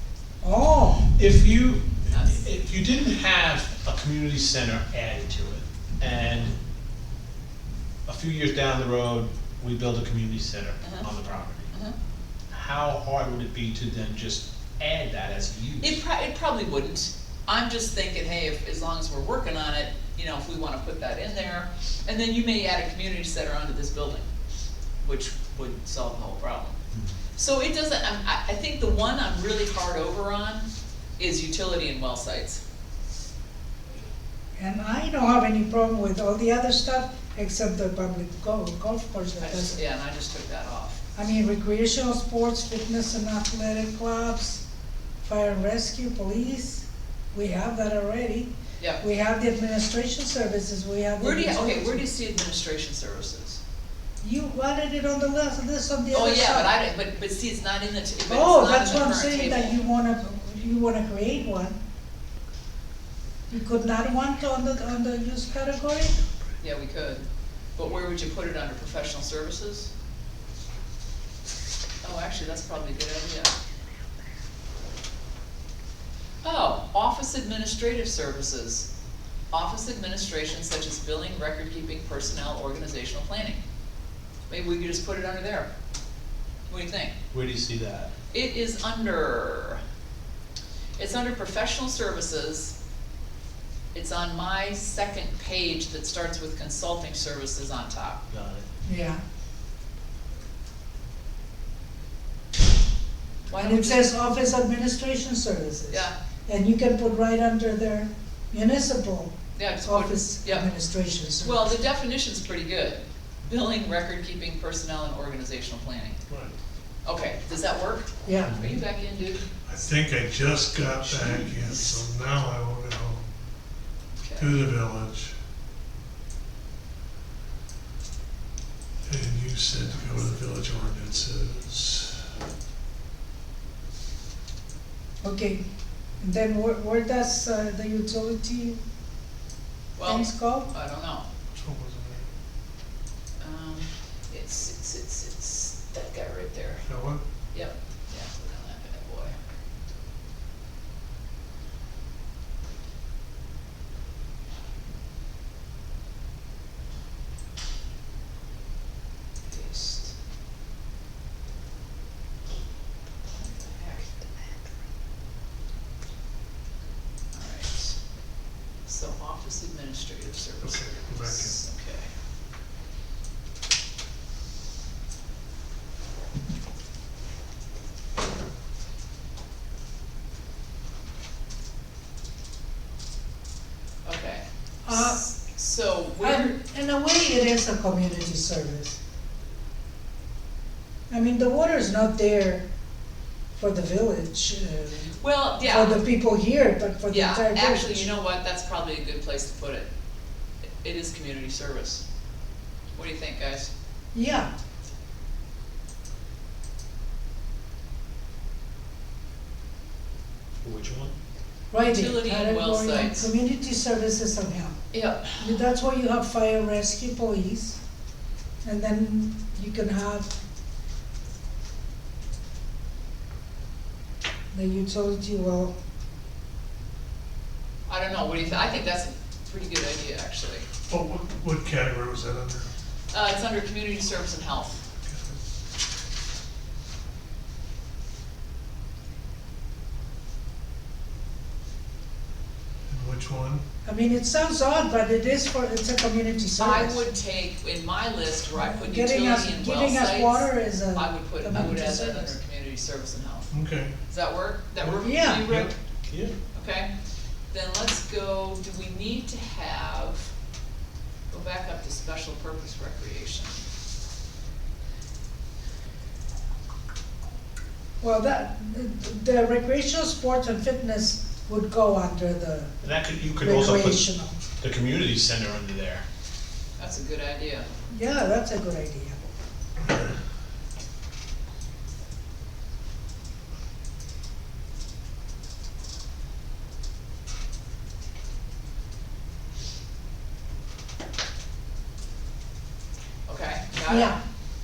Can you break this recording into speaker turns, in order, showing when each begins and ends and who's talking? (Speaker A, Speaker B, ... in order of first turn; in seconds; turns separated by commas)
Speaker A: 0.4-1.1, Speaker B: 1.1-6.5, Speaker C: 2.1-2.4, Speaker B: 8.1-11.7, Speaker C: 10.8-11.1, Speaker C: 11.7-12.0, Speaker B: 12.5-16.0, Speaker C: 15.8-24.3, Speaker C: 25.0-26.8, Speaker C: 27.4-30.7, Speaker C: 31.2-32.6, Speaker A: 34.6-39.8, Speaker C: 39.4-41.0, Speaker A: 41.1-44.6, Speaker A: 45.2-52.0, Speaker C: 51.2-53.6, Speaker A: 54.2-56.7, Speaker C: 56.1-59.8, Speaker A: 58.3-61.8, Speaker A: 63.5-66.2, Speaker C: 66.6-69.9, Speaker C: 72.0-73.5, Speaker C: 76.4-78.9, Speaker C: 79.5-83.6, Speaker C: 84.5-85.7, Speaker C: 86.7-87.2, Speaker B: 87.3-88.1, Speaker C: 88.3-89.8, Speaker C: 91.0-92.8, Speaker C: 93.9-98.2, Speaker B: 98.3-98.7, Speaker A: 98.8-99.2, Speaker C: 103.5-104.1, Speaker A: 103.6-111.6, Speaker C: 105.9-106.2, Speaker C: 109.6-110.7, Speaker C: 111.4-116.2, Speaker C: 117.0-119.5, Speaker A: 118.2-118.6, Speaker B: 118.5-118.8, Speaker D: 119.7-123.2, Speaker B: 120.8-122.0, Speaker C: 124.2-124.6, Speaker D: 124.4-125.3, Speaker D: 129.1-132.3, Speaker C: 129.9-130.3, Speaker A: 135.2-135.6, Speaker A: 136.2-138.8, Speaker C: 139.9-141.3, Speaker A: 140.0-140.7, Speaker D: 141.5-142.3, Speaker C: 143.4-146.9, Speaker D: 146.8-147.2, Speaker C: 147.5-149.4, Speaker C: 159.5-160.1, Speaker C: 163.4-164.2, Speaker C: 167.3-168.0, Speaker C: 168.8-172.1, Speaker D: 170.6-171.6, Speaker C: 184.0-186.6, Speaker A: 184.8-185.2, Speaker A: 186.2-189.0, Speaker A: 191.1-192.7, Speaker A: 193.6-198.1, Speaker C: 195.2-196.0, Speaker C: 197.1-199.9, Speaker C: 200.8-202.0, Speaker C: 202.9-203.7, Speaker A: 204.1-204.5, Speaker B: 210.6-211.1, Speaker A: 211.7-214.8, Speaker C: 211.8-213.3, Speaker C: 214.9-215.6, Speaker A: 215.4-217.8, Speaker A: 218.6-220.4, Speaker A: 224.5-225.7, Speaker C: 227.9-230.7, Speaker D: 230.9-232.7, Speaker C: 233.1-234.8, Speaker D: 235.1-235.4, Speaker D: 242.9-243.6, Speaker A: 243.8-247.0, Speaker C: 246.6-253.5, Speaker A: 248.6-252.3, Speaker D: 253.5-253.9, Speaker C: 254.1-255.7, Speaker A: 255.0-255.4, Speaker B: 255.5-256.3, Speaker C: 256.5-256.9, Speaker C: 257.5-260.3, Speaker C: 261.3-263.6, Speaker A: 268.0-272.7, Speaker B: 272.8-274.1, Speaker A: 273.4-274.4, Speaker B: 274.6-276.0, Speaker C: 276.8-277.7, Speaker A: 277.9-279.3, Speaker D: 279.8-280.1, Speaker C: 293.3-294.1, Speaker A: 293.9-294.2